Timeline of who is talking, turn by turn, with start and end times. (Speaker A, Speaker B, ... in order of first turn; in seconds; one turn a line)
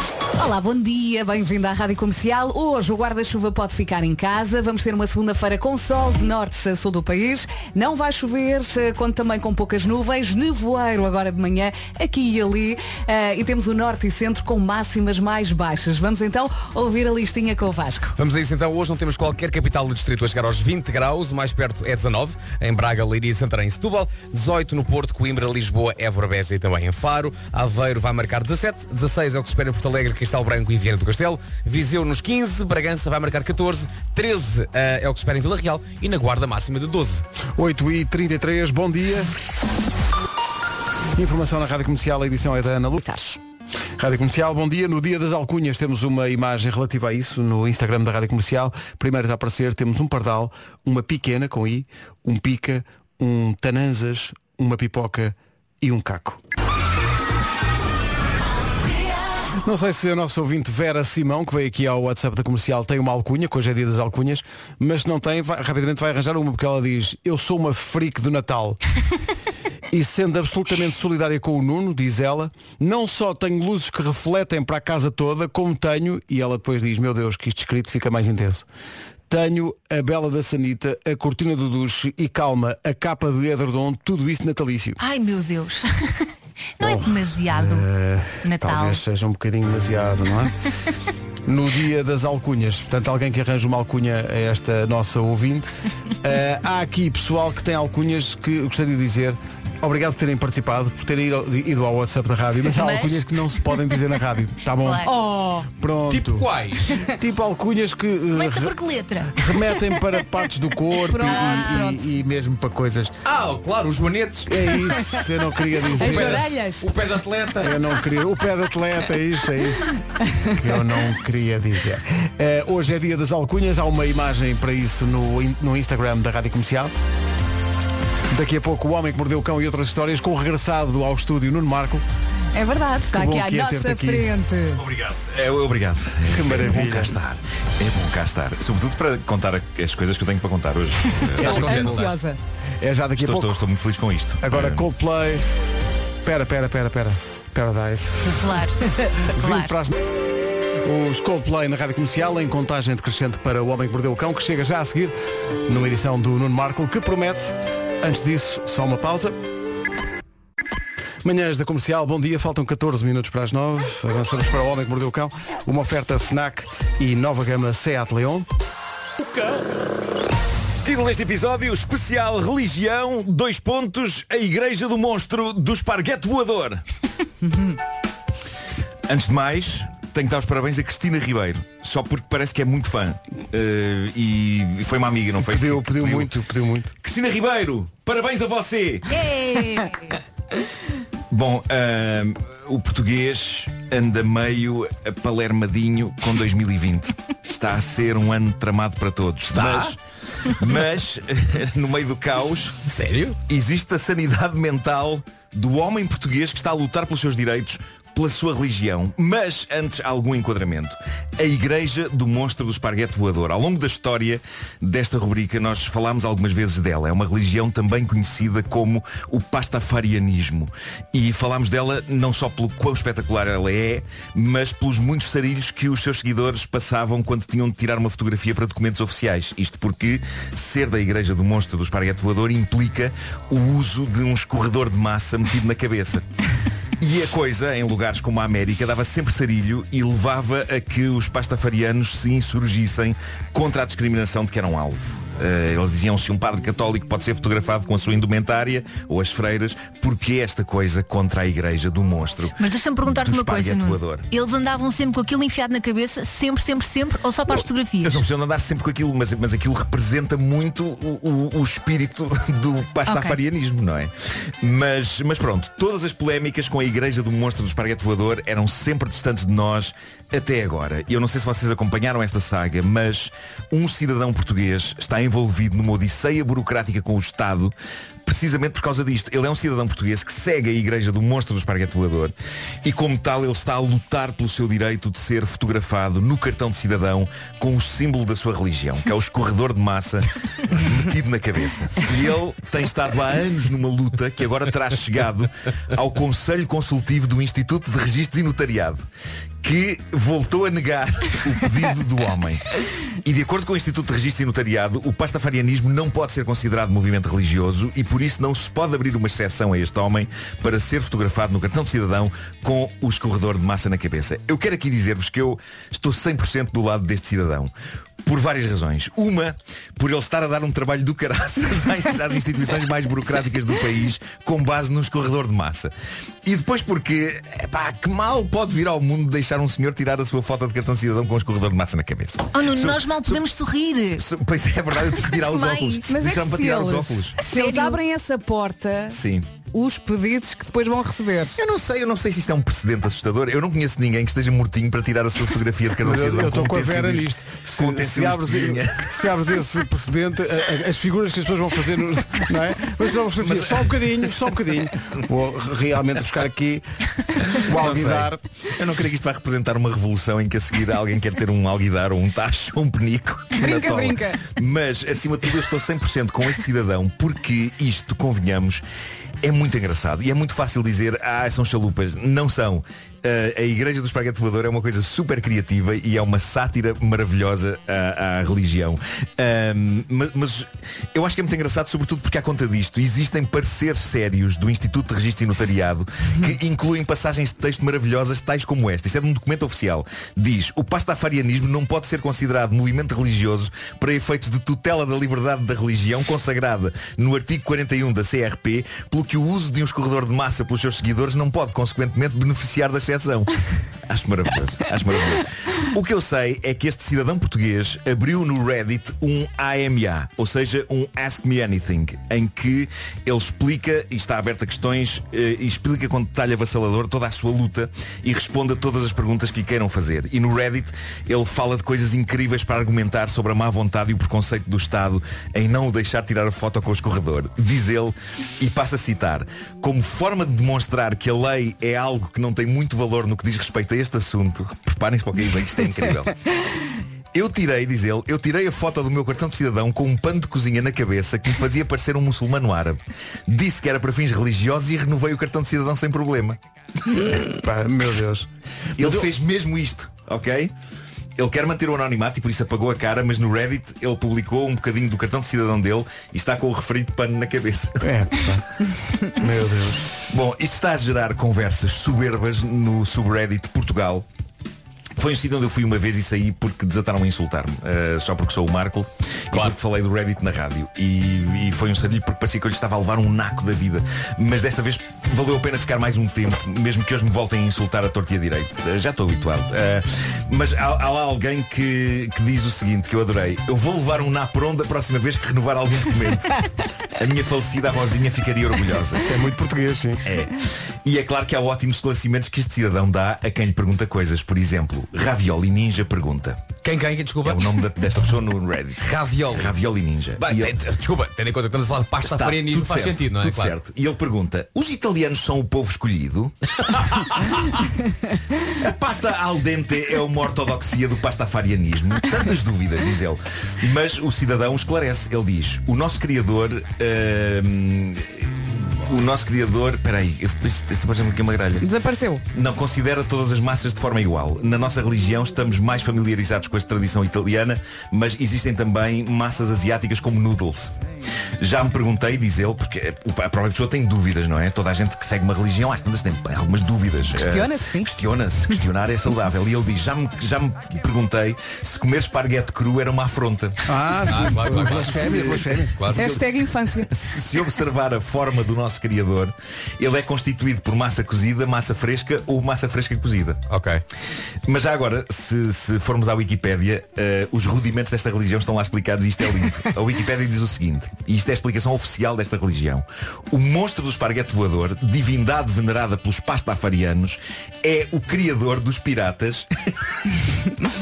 Speaker A: 0.4-18.1
Speaker B: 18.2-37.3
Speaker C: 37.6-39.3
Speaker C: 41.1-43.1
Speaker A: 43.0-43.4
Speaker C: 44.0-56.4
Speaker C: 59.6-68.8
Speaker C: 69.9-78.7
Speaker C: 79.3-85.0
Speaker D: 85.0-87.9
Speaker C: 86.8-90.6
Speaker D: 88.4-89.0
Speaker C: 91.5-95.7
Speaker C: 96.2-105.1
Speaker D: 102.7-103.3
Speaker D: 104.8-105.1
Speaker A: 105.0-105.7
Speaker C: 105.7-106.5
Speaker B: 106.1-107.0
Speaker C: 107.0-108.8
Speaker D: 108.3-110.0
Speaker C: 109.3-113.2
Speaker A: 111.1-111.9
Speaker D: 111.3-112.0
Speaker B: 113.2-114.7
Speaker C: 114.5-116.5
Speaker B: 115.9-117.8
Speaker A: 116.0-116.9
Speaker C: 117.6-127.0
Speaker C: 128.3-132.1
Speaker A: 132.5-134.8
Speaker C: 133.1-134.3
Speaker E: 134.8-141.8
Speaker C: 136.2-137.2
Speaker B: 141.2-142.1
Speaker A: 141.4-142.4
Speaker C: 141.4-142.1
Speaker C: 142.8-143.7
Speaker E: 143.2-144.9
Speaker C: 144.4-145.4
Speaker C: 146.2-148.6
Speaker D: 148.4-149.8
Speaker C: 149.3-150.0
Speaker C: 150.8-155.2
Speaker C: 155.7-159.4
Speaker C: 161.2-168.5
Speaker E: 170.8-176.8
Speaker E: 179.1-186.3
Speaker C: 185.4-186.9
Speaker E: 187.0-189.2
Speaker D: 189.1-190.2
Speaker E: 191.3-202.8
Speaker B: 199.5-200.0
Speaker B: 202.8-203.4
Speaker E: 203.5-236.3
Speaker E: 237.0-254.3
Speaker D: 252.6-258.2
Speaker E: 257.5-299.0
Speaker D: 263.1-263.4
Speaker E: 299.6-302.6
Speaker E: 303.2-325.9
Speaker E: 326.4-333.5
Speaker D: 332.5-334.3
Speaker E: 334.1-337.4
Speaker D: 335.1-336.2
Speaker A: 336.1-339.2
Speaker D: 337.4-338.0
Speaker E: 339.1-339.5
Speaker A: 339.7-341.6
Speaker E: 341.6-349.2
Speaker C: 346.0-356.9
Speaker E: 353.4-354.1
Speaker C: 357.5-358.4
Speaker E: 357.7-368.8
Speaker A: 363.6-364.4
Speaker E: 369.4-436.4
Speaker E: 437.3-446.6
Speaker C: 447.3-449.3
Speaker E: 449.0-450.7
Speaker E: 451.4-458.1
Speaker C: 458.0-460.2
Speaker E: 460.3-464.3
Speaker E: 465.2-489.3
Speaker C: 489.2-490.3
Speaker E: 490.2-496.7
Speaker B: 496.8-497.8
Speaker E: 497.4-500.8
Speaker B: 499.0-499.8
Speaker B: 500.4-503.8
Speaker E: 502.2-507.2
Speaker E: 508.6-521.9
Speaker A: 521.8-522.4
Speaker E: 522.5-531.0
Speaker E: 531.6-543.9
Speaker A: 537.4-538.2
Speaker C: 543.9-546.1
Speaker B: 544.2-546.3
Speaker E: 545.2-545.5
Speaker E: 546.0-546.4
Speaker A: 546.1-547.2
Speaker E: 547.1-553.6
Speaker B: 553.7-554.0
Speaker E: 554.6-570.1